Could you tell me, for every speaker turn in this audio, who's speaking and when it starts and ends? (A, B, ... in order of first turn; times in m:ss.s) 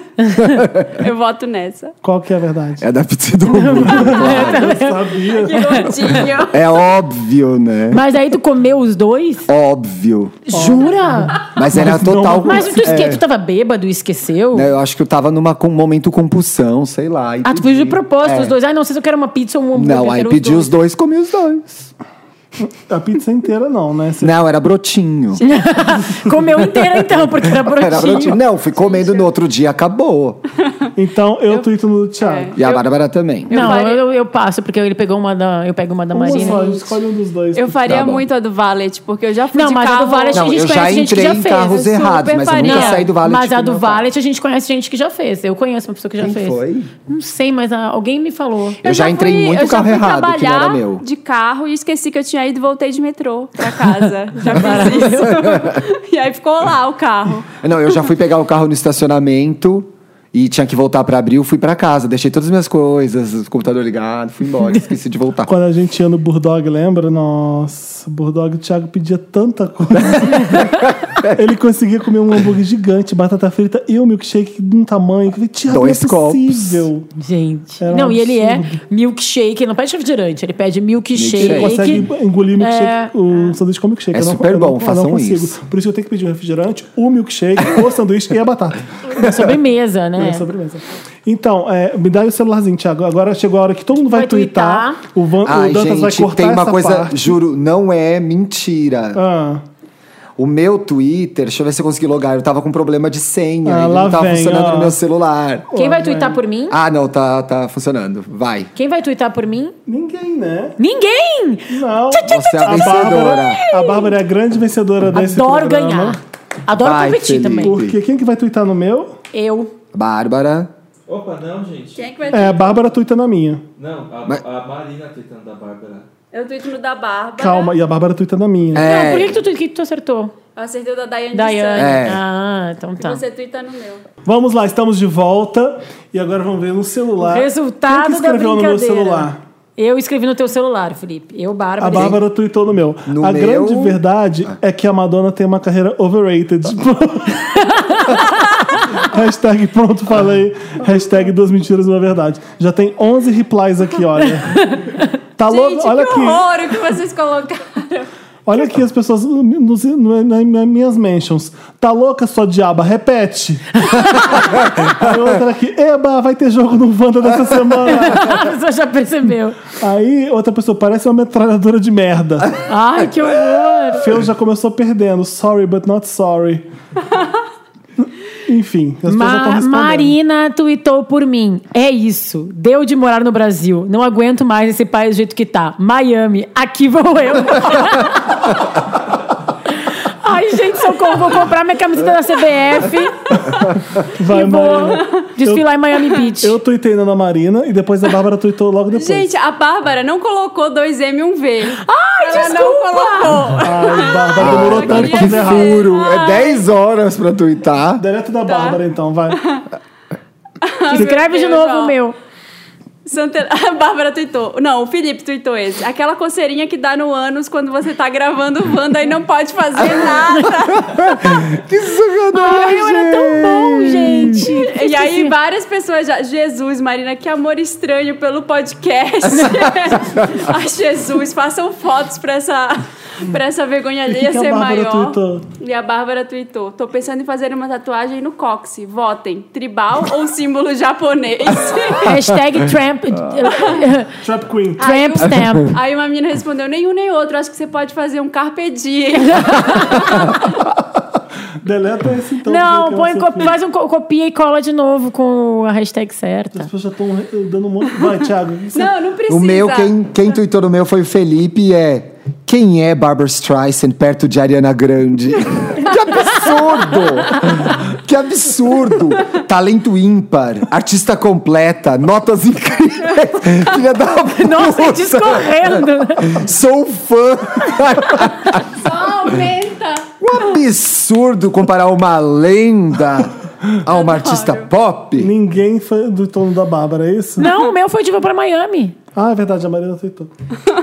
0:00.3-0:01.0 A
0:00.9-0:02.0 B
0:02.0-0:02.8 C
0:02.8-0:04.8 A
0:03.5-0:06.3 D
0:03.8-0:05.8 C
0:05.3-0:06.8 B
0:06.5-0:08.1 A
0:07.9-0:09.5 D
0:09.5-0:10.6 A
0:10.5-0:11.5 D
0:10.5-0:13.0 C
0:11.5-0:13.2 A
0:12.4-0:14.7 D
0:14.5-0:18.5 A
0:17.4-0:20.8 D
0:19.7-0:21.9 A
0:22.6-0:24.3 C
0:24.2-0:25.4 A
0:25.3-0:25.8 B
0:25.4-0:28.4 D
0:27.5-0:30.4 A
0:28.7-0:29.3 B
0:31.0-0:32.6 C
0:32.2-0:32.8 B
0:32.6-0:33.7 A
0:33.5-0:34.0 B
0:33.5-0:37.0 D
0:36.1-0:38.0 C
0:37.6-0:40.6 B
0:37.9-0:38.3 A
0:39.5-0:41.8 D
0:40.3-0:44.1 A
0:41.5-0:43.1 B
0:42.6-0:48.8 D
0:46.2-0:46.9 A
0:48.8-0:51.0 A
0:48.8-0:57.5 B
0:54.4-0:55.6 D
0:55.2-0:55.8 A
0:57.6-1:05.5 A
1:05.4-1:17.1 C
1:10.6-1:11.4 A
1:15.6-1:16.9 A
1:17.2-1:23.5 D
1:17.8-1:18.8 C
1:21.1-1:22.1 A
1:21.4-1:29.6 C
1:24.1-1:25.6 A
1:29.1-1:30.5 D
1:30.2-1:37.4 C
1:34.0-1:35.0 D
1:35.4-1:39.2 A
1:39.1-1:39.6 C
1:40.4-1:45.7 A
1:43.6-1:45.0 C
1:45.7-1:46.4 C
1:45.8-1:46.8 D
1:46.7-1:48.7 A
1:48.8-1:49.7 D
1:49.9-1:50.8 C
1:50.8-1:54.2 D
1:51.7-1:56.2 C
1:52.2-1:53.6 A
1:55.1-1:57.8 D
1:56.8-1:58.0 A
1:57.6-1:59.1 C
1:59.3-1:59.7 D
1:59.9-2:00.7 A
2:01.1-2:02.1 E
2:02.0-2:02.8 B
2:02.3-2:03.6 C
2:03.8-2:06.1 E
2:06.3-2:07.8 B
2:07.4-2:08.9 C
2:08.7-2:09.4 A
2:08.8-2:10.3 D
2:10.6-2:12.1 B
2:11.3-2:13.2 D
2:11.8-2:12.2 A
2:13.0-2:14.0 B
2:14.2-2:19.4 C
2:17.2-2:22.2 D
2:21.8-2:27.6 C
2:21.9-2:22.2 A
2:23.1-2:24.0 A
2:27.6-2:28.4 D
2:28.9-2:34.8 C
2:34.6-2:35.0 D
2:35.4-2:36.4 C
2:35.5-2:38.1 B
2:38.4-2:48.5 C
2:43.8-2:44.6 D
2:47.9-2:49.6 D
2:49.8-2:52.6 C
2:52.7-2:54.1 D
2:53.9-2:56.6 C
2:58.4-3:00.2 C
2:59.1-3:08.5 D
3:09.9-3:13.5 D
3:13.5-3:15.6 C
3:14.3-3:16.6 D
3:14.4-3:15.3 B
3:16.3-3:19.3 C
3:18.9-3:26.6 B
3:21.8-3:23.6 D
3:23.6-3:25.8 C
3:24.4-3:28.0 A
3:28.0-3:29.4 C
3:28.4-3:29.6 B
3:30.6-3:32.0 B
3:30.9-3:32.1 D
3:33.1-3:41.2 B
3:40.7-3:44.5 A
3:42.3-3:45.3 D
3:44.5-4:02.2 B
3:54.1-3:55.4 C
4:02.0-4:04.2 D
4:03.5-4:03.8 B
4:04.2-4:05.1 C
4:04.8-4:05.8 D
4:04.8-4:10.4 B
4:09.2-4:10.3 D
4:11.6-4:13.6 C
4:12.4-4:16.7 D
4:16.5-4:18.9 C
4:18.7-4:20.0 B
4:19.3-4:38.8 A
4:34.4-4:36.4 D
4:38.8-4:40.1 B
4:40.2-4:45.3 A
4:43.9-4:44.7 B
4:45.2-4:47.5 C
4:47.4-4:49.0 D
4:49.1-4:50.3 C